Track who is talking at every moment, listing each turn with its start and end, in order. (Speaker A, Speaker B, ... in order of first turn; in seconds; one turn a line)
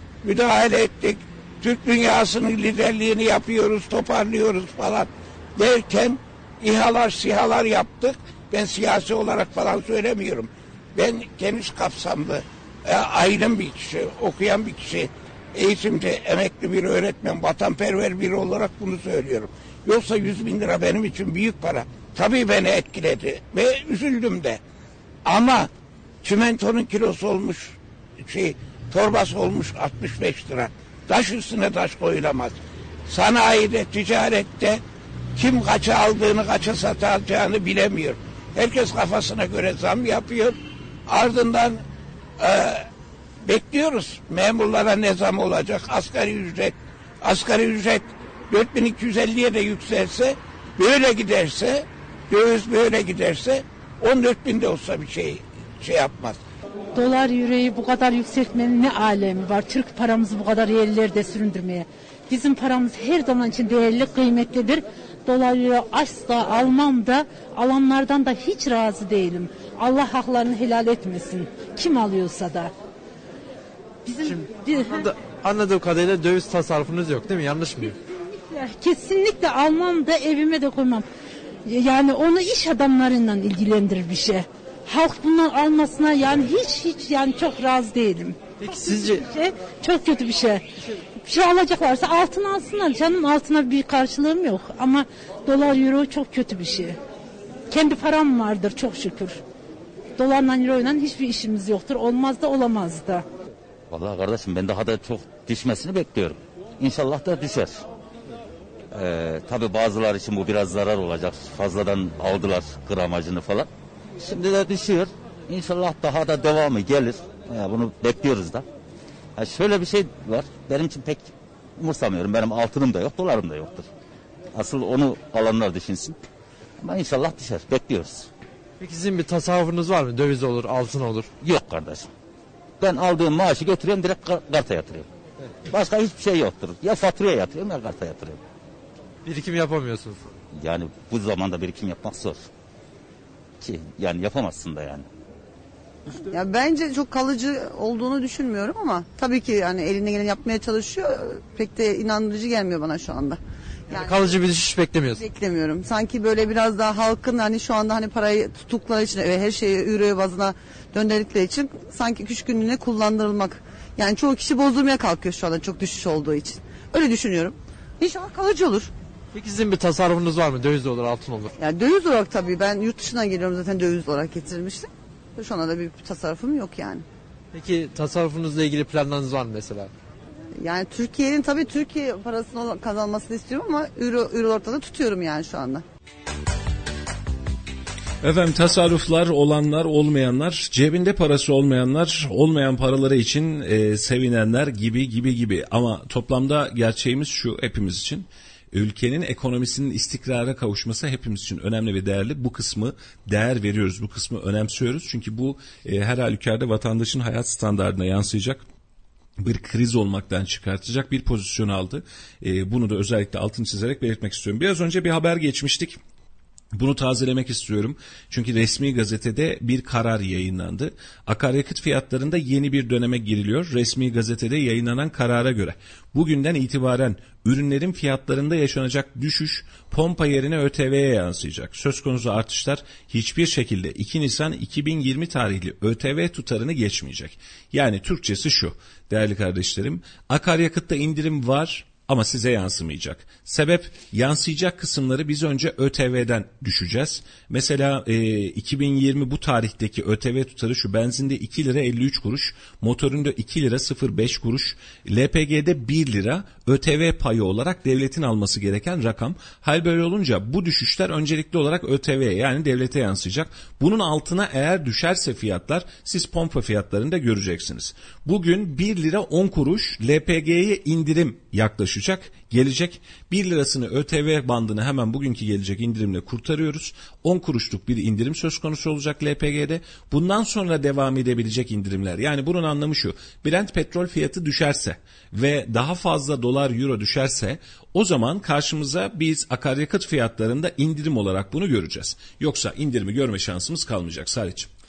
Speaker A: 0.2-24.6
Speaker A: 25.2-25.7
Speaker A: 26.2-34.8
Speaker A: 35.4-41.8
Speaker A: 42.4-42.9
Speaker A: 43.4-56.4
Speaker B: 56.9-72.7
Speaker B: 74.1-75.0
Speaker C: 74.2-78.0
Speaker B: 78.4-81.0
Speaker B: 81.6-97.0
Speaker C: 88.6-89.2
Speaker B: 97.7-99.4
Speaker B: 100.2-103.2
Speaker D: 103.9-107.8
Speaker D: 108.9-118.6
Speaker D: 119.3-123.8
Speaker D: 124.5-126.2
Speaker D: 126.8-128.3
Speaker C: 128.8-131.3
Speaker D: 131.4-132.1
Speaker D: 132.8-135.1
Speaker D: 135.7-138.4
Speaker C: 139.2-140.2
Speaker D: 140.6-142.4
Speaker D: 143.6-145.1
Speaker E: 146.1-154.2
Speaker C: 153.9-155.2
Speaker E: 155.2-168.9
Speaker C: 169.3-171.5
Speaker E: 171.6-177.1
Speaker C: 177.5-179.9
Speaker E: 180.6-185.8
Speaker F: 188.2-208.6
Speaker F: 209.4-216.0
Speaker F: 216.7-294.7